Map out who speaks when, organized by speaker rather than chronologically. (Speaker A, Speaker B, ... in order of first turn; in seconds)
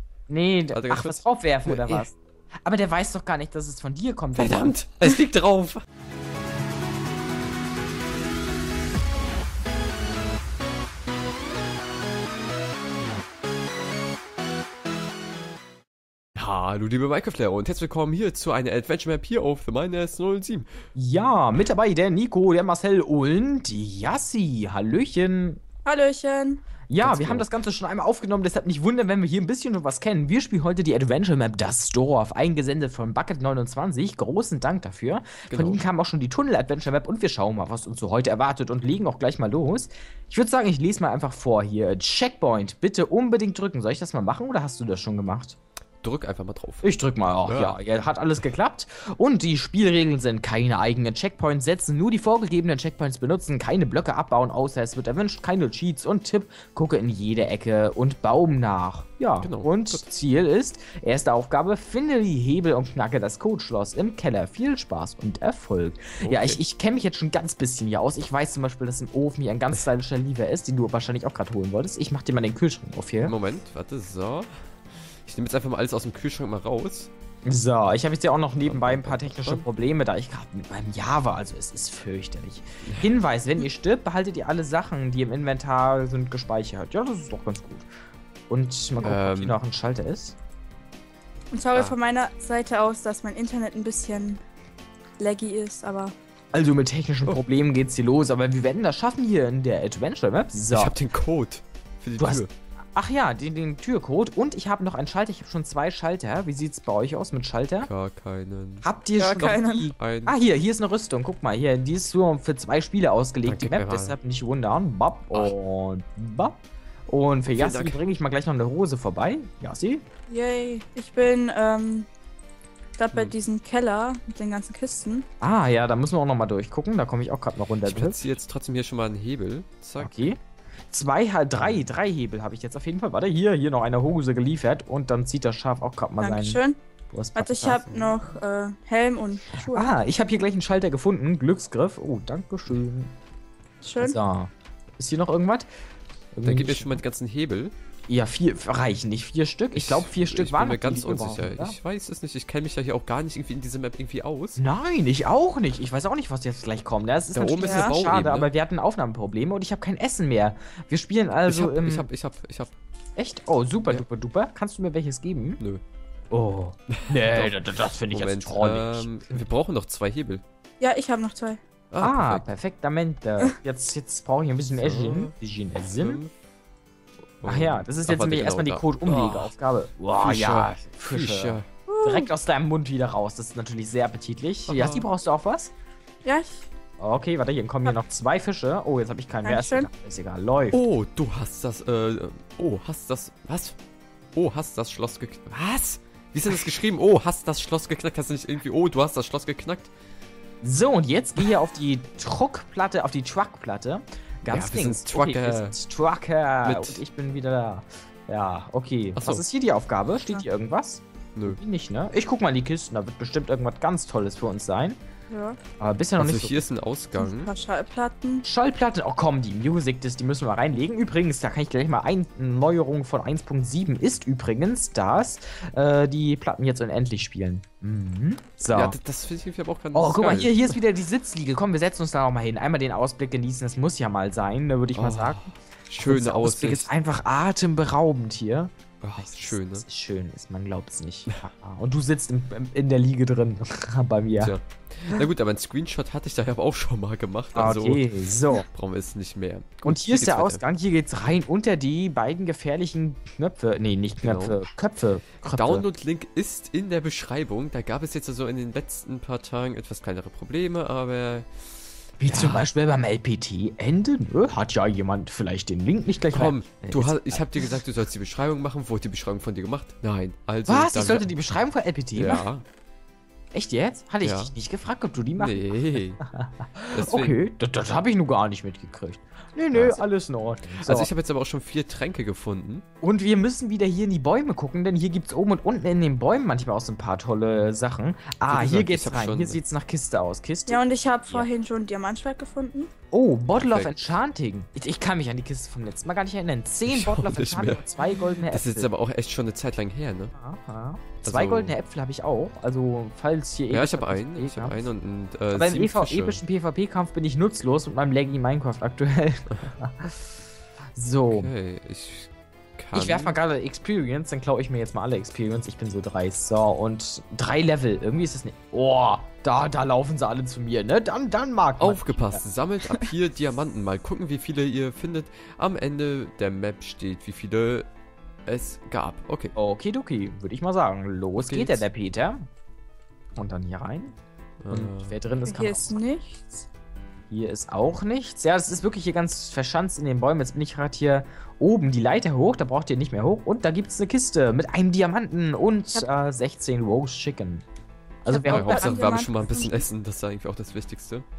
Speaker A: 0.3-4.8, 20.9-25.6, 26.9-45.6, 46.8-73.3, 77.5-87.8, 88.5-90.4, 96.5-100.9, 102.2-107.9, 108.8-116.6, 117.1-120.0, 125.4-128.2, 130.0-130.4, 130.9-136.6, 137.1-138.0, 139.6-143.1, 144.0-145.7, 146.3-147.0, 148.1-151.7, 154.6-162.1, 163.2-165.6, 166.3-169.1, 172.0-176.2, 177.4-185.7, 187.0-190.8, 200.6-215.0, 215.8-216.6, 218.4-228.9, 229.9-235.5, 236.0-244.5, 247.5-248.7, 249.8-255.8, 262.2-267.7, 270.7-272.4, 273.5-281.1, 283.0-291.5, 293.1-298.9, 300.3-304.9, 305.5-310.2, 311.0-311.5, 312.9-322.4, 329.6-332.5, 333.4-334.1, 334.7-336.0, 337.3-347.6, 348.2-348.9
Speaker B: 0.7-2.1, 4.4-5.8, 16.3-20.7, 27.0-27.5, 35.5-35.8, 46.0-47.8, 59.4-60.0, 66.2-66.6, 73.2-77.1, 78.7-79.7, 82.8-83.1, 89.0-89.6, 100.7-102.5, 107.8-108.8, 110.0-110.4, 113.4-114.2, 117.5-118.0, 127.8-130.3, 146.4-147.7, 149.7-154.6, 157.3-158.5, 161.5-162.7, 166.9-167.6, 168.1-170.4, 171.9-172.5, 174.8-176.3, 177.4-179.5, 180.2-181.7, 184.7-185.1, 190.7-193.8, 194.3-199.9, 204.5-205.8, 206.6-207.0, 209.2-209.4, 211.3-211.6, 216.2-217.5, 228.7-230.8, 234.9-236.9, 239.0-239.8, 244.4-248.1, 248.6-250.6, 254.2-254.6, 255.5-261.5, 262.2-262.7, 266.3-271.3, 272.2-272.6, 274.2-274.5, 275.4-276.2, 276.8-277.4, 279.7-280.0, 280.7-282.9, 288.5-289.6, 293.6-294.0, 296.9-297.9, 298.5-300.3, 301.2-301.8, 303.7-306.4, 311.3-313.4, 321.8-327.9, 328.5-329.6, 331.4-331.9, 334.6-335.1, 348.5-351.2
Speaker C: 25.8-26.6, 91.5-94.4, 95.2-96.1, 109.2-109.9, 120.3-122.1, 123.0-125.3, 136.2-136.8, 137.3-139.9, 143.8-144.2, 157.6-157.9, 170.8-171.6, 181.9-182.3, 186.2-186.6, 189.4-189.9, 215.3-215.6, 217.2-218.4, 290.7-292.9, 335.5-336.4, 348.3-349.9